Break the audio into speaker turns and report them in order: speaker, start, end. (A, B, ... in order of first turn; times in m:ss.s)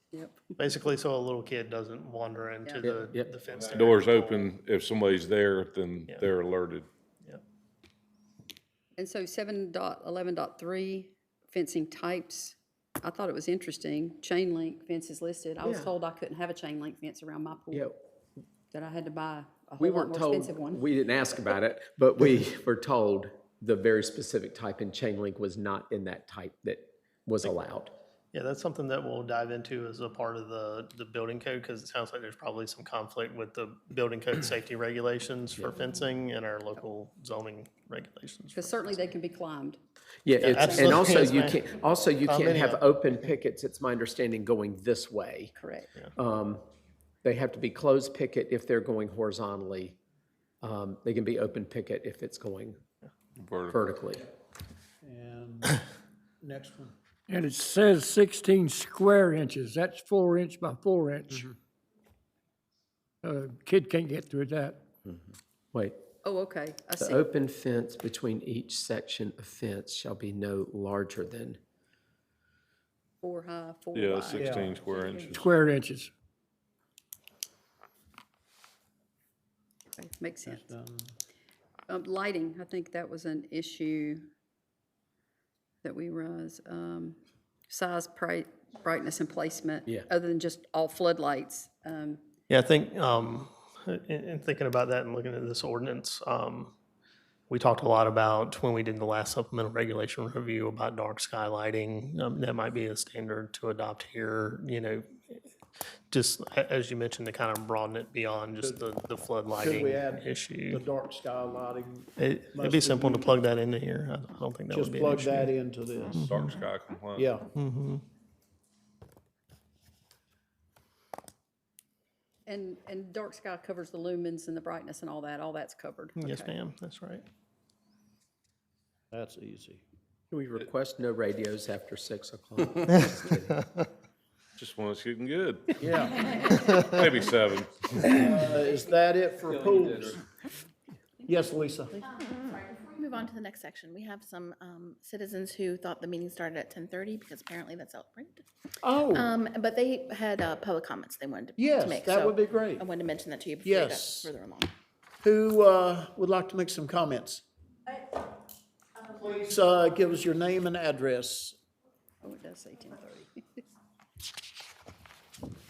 0:00.1-0:00.4 A
0:00.6-0:04.5 B
0:02.6-0:02.9 A
0:02.8-0:03.3 C
0:03.5-0:06.9 D
0:09.0-0:17.9 A
0:15.6-0:15.9 C
0:17.7-0:18.0 C
0:18.7-0:20.8 A
0:19.8-0:27.9 C
0:28.3-0:39.1 B
0:38.5-0:39.8 A
0:40.2-0:45.5 C
0:40.4-0:41.7 B
0:40.5-0:41.5 A
0:42.2-0:43.0 B
0:45.6-0:45.9 A
0:46.2-0:46.6 C
0:47.2-0:50.0 C
0:50.6-0:52.8 C
0:53.4-0:53.8 D
0:53.7-0:54.2 C
0:55.0-0:55.8 E
0:56.4-0:56.9 E
0:57.3-1:01.4 F
1:03.2-1:04.8 F
1:05.7-1:06.0 C
1:06.2-1:07.2 A
1:07.0-1:11.6 C
1:13.2-1:15.4 A
1:13.9-1:15.5 D
1:14.4-1:14.7 E
1:15.4-1:16.1 F
1:19.9-1:20.6 A
1:20.4-1:21.1 E
1:21.9-1:24.3 A
1:25.8-1:27.2 A
1:27.7-1:32.2 A
1:32.5-1:36.7 B
1:37.5-1:45.4 B
1:46.1-1:50.8 B
1:49.6-1:53.3 E
1:52.2-1:55.5 B
1:54.7-1:56.2 E
1:56.1-1:57.4 D
1:56.1-1:56.6 B
1:57.1-1:57.5 E
1:57.5-1:58.0 B
2:02.5-2:06.5 A
2:06.2-2:07.2 B
2:09.1-2:09.8 E
2:10.3-2:13.6 C
2:14.6-2:18.2 D
2:15.8-2:16.2 E
2:16.4-2:16.8 B
2:18.0-2:20.2 E
2:19.5-2:20.1 D
2:21.2-2:22.0 E
2:22.0-2:28.5 G
2:28.8-2:29.3 E
2:29.0-2:34.7 G
2:31.6-2:32.9 E
2:33.6-2:34.3 E
2:35.2-2:37.4 E
2:39.1-2:41.6 E
2:42.2-2:43.6 A